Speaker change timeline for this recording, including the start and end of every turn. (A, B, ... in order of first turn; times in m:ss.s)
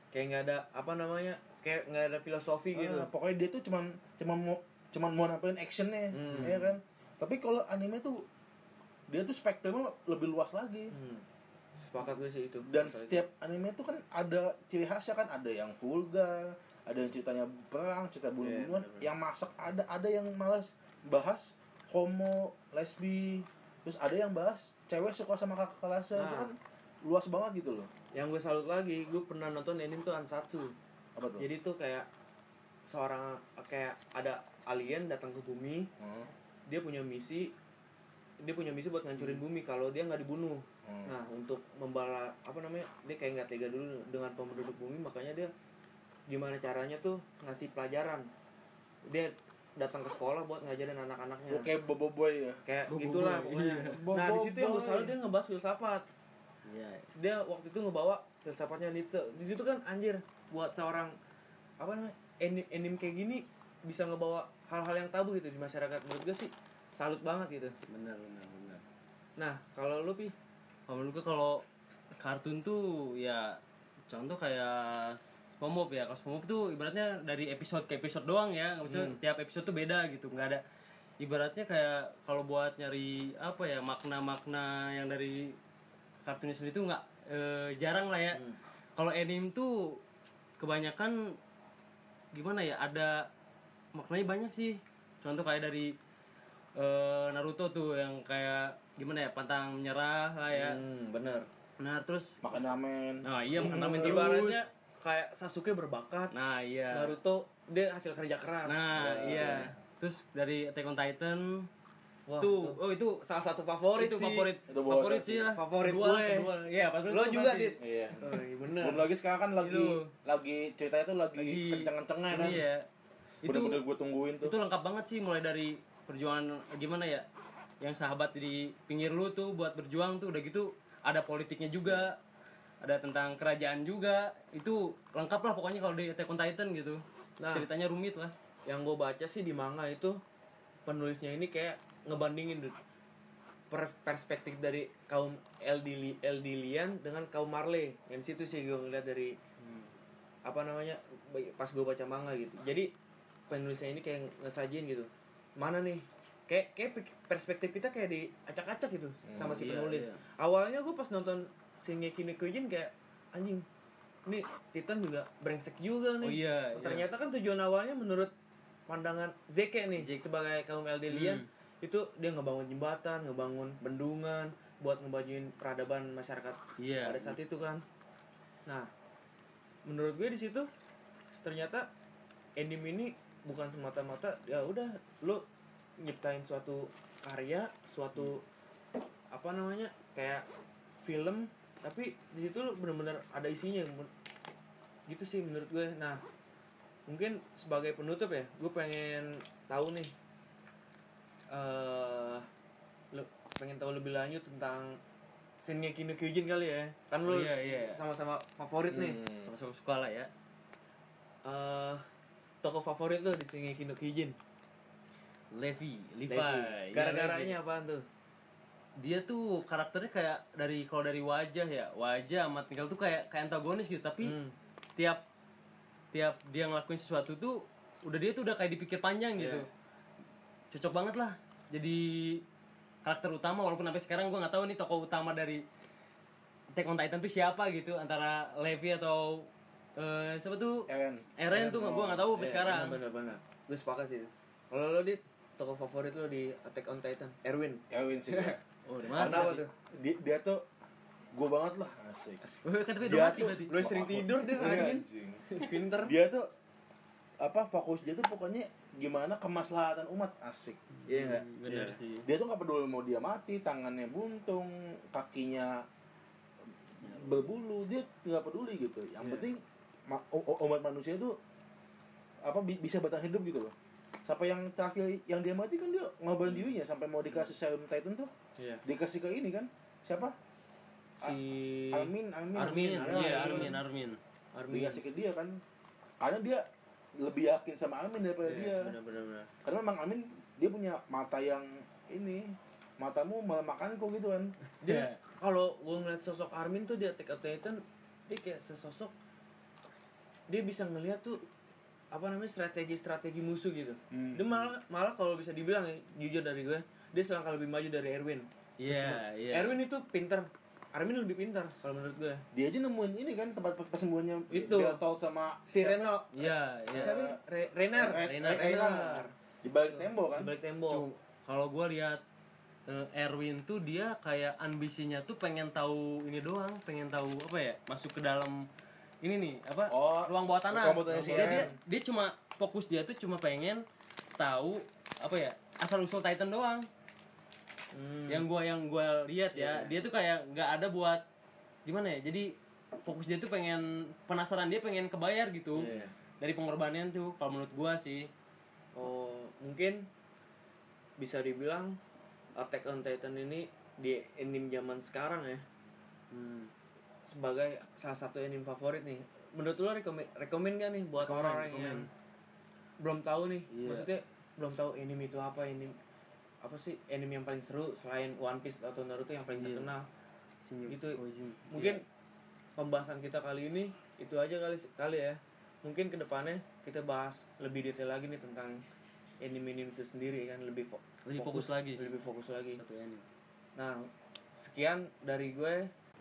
0:00.1-0:03.1 A
0:02.7-0:08.2 B
0:06.1-0:06.8 A
0:09.1-0:10.9 B
0:10.9-0:11.2 A
0:11.8-0:13.3 A
0:12.7-0:27.9 B
0:18.4-0:19.1 A
0:26.2-0:26.5 A
0:28.1-0:30.8 A
0:31.2-0:31.4 B
0:31.4-0:32.1 A
0:32.9-0:35.9 A
0:36.0-0:36.3 B
0:36.7-0:37.5 A
0:38.4-0:45.5 A
0:40.9-0:41.1 B
0:46.3-0:48.3 A
0:49.0-0:51.7 A
0:51.5-0:52.6 B
0:52.6-0:56.0 A
0:52.9-0:54.1 C
0:53.8-0:55.2 B
0:56.7-0:57.0 C
0:57.2-1:01.2 A
1:01.8-1:07.8 A
1:07.9-1:08.8 C
1:09.4-1:10.3 A
1:10.9-1:11.6 C
1:12.2-1:20.6 C
1:18.9-1:19.2 A
1:21.2-1:25.6 C
1:26.2-1:28.4 C
1:29.0-1:30.0 C
1:30.6-1:31.2 C
1:32.3-1:33.3 C
1:33.9-1:35.9 C
1:36.8-1:40.8 C
1:40.5-1:41.5 A
1:41.8-1:42.4 C
1:42.4-1:44.3 B
1:43.2-1:44.7 C
1:43.6-1:46.3 A
1:46.3-1:47.2 C
1:46.9-1:49.6 A
1:48.7-1:51.7 C
1:49.0-1:49.7 B
1:52.3-1:54.5 A
1:52.4-1:53.2 C
1:54.0-1:57.8 C
1:54.7-1:55.5 B
1:55.5-1:56.5 A
1:57.1-1:59.1 A
1:57.8-2:02.6 B
1:59.6-2:00.1 C
2:01.4-2:02.8 C
2:03.4-2:03.8 C
2:03.4-2:04.6 B
2:04.4-2:07.3 C
2:07.8-2:12.2 C
2:12.8-2:18.3 C
2:17.4-2:17.7 A
2:18.7-2:20.2 A
2:20.9-2:22.8 A
2:23.7-2:29.4 A
2:30.4-2:32.9 A
2:33.5-2:43.6 A
2:39.2-2:39.6 B
2:39.4-2:40.2 C
2:44.3-2:48.3 A
2:46.2-2:47.1 C
2:48.9-2:57.8 A
2:49.9-2:50.2 C
2:51.1-2:51.5 C
2:56.8-2:57.4 C
2:59.8-3:00.7 A
3:01.4-3:01.9 A
3:02.6-3:05.4 A
3:06.0-3:08.4 A
3:09.3-3:10.4 A
3:11.0-3:14.1 A
3:15.1-3:16.2 A
3:17.1-3:20.1 A
3:21.5-3:22.5 A
3:23.1-3:25.0 A
3:25.6-3:29.2 A
3:27.2-3:28.0 C
3:28.9-3:29.5 B
3:29.4-3:30.3 C
3:31.4-3:32.0 A
3:32.6-3:34.4 A
3:35.5-3:37.6 C
3:36.3-3:38.0 A
3:39.0-3:44.4 C
3:44.2-3:44.6 A
3:44.9-3:45.2 C
3:46.1-3:49.7 C
3:49.4-3:49.7 A
3:50.7-3:52.4 C
3:53.0-3:55.6 C
3:56.7-4:03.0 C
4:00.9-4:02.3 B
4:02.3-4:08.6 A
4:07.9-4:08.6 B
4:08.8-4:09.7 C
4:09.1-4:09.7 A
4:09.9-4:10.6 B
4:11.3-4:12.4 B
4:12.5-4:16.2 A
4:12.6-4:14.8 C
4:13.0-4:15.4 B
4:16.0-4:16.5 B
4:17.4-4:21.4 B
4:21.1-4:22.3 C
4:21.6-4:22.0 A
4:22.2-4:25.8 B
4:27.0-4:31.4 B
4:29.2-4:29.5 A
4:32.4-4:33.7 B
4:34.2-4:38.3 B
4:38.6-4:38.8 A
4:38.8-4:40.4 B
4:41.2-4:43.8 A
4:41.9-4:43.8 B
4:42.7-4:44.2 C
4:44.5-4:45.0 A
4:44.7-4:45.6 B
4:46.2-4:46.6 B
4:47.2-4:49.0 B
4:48.4-4:49.5 A
4:49.6-4:54.5 B
4:54.8-4:59.1 A
4:54.8-4:55.2 C
5:00.5-5:01.4 A
5:02.1-5:12.4 A
5:04.1-5:04.7 B
5:08.8-5:09.8 C
5:12.5-5:17.4 B
5:14.5-5:15.0 A
5:15.7-5:16.3 A
5:16.3-5:17.2 C
5:16.9-5:19.3 A
5:17.9-5:20.5 B
5:18.2-5:18.9 C
5:19.9-5:21.0 A
5:20.9-5:22.2 C
5:22.9-5:28.7 C
5:29.2-5:33.8 C
5:29.9-5:31.7 B
5:31.1-5:31.7 A
5:34.4-5:36.9 C
5:37.9-5:38.5 A
5:38.3-5:41.2 C
5:39.5-5:40.0 A
5:41.8-5:42.5 C
5:43.0-5:48.3 C
5:45.7-5:46.1 A
5:49.0-5:50.1 A
5:51.2-5:52.0 A
5:52.6-5:55.6 A
5:56.3-5:56.7 C
5:57.3-6:02.1 A
6:01.2-6:02.1 C
6:03.0-6:06.0 A
6:03.7-6:04.1 C
6:06.6-6:10.1 A
6:09.6-6:09.9 C
6:10.7-6:12.0 C
6:10.9-6:11.2 A
6:11.7-6:12.0 A
6:12.8-6:18.8 A
6:19.4-6:22.8 A
6:21.2-6:22.1 C
6:22.7-6:23.2 C
6:23.8-6:25.9 A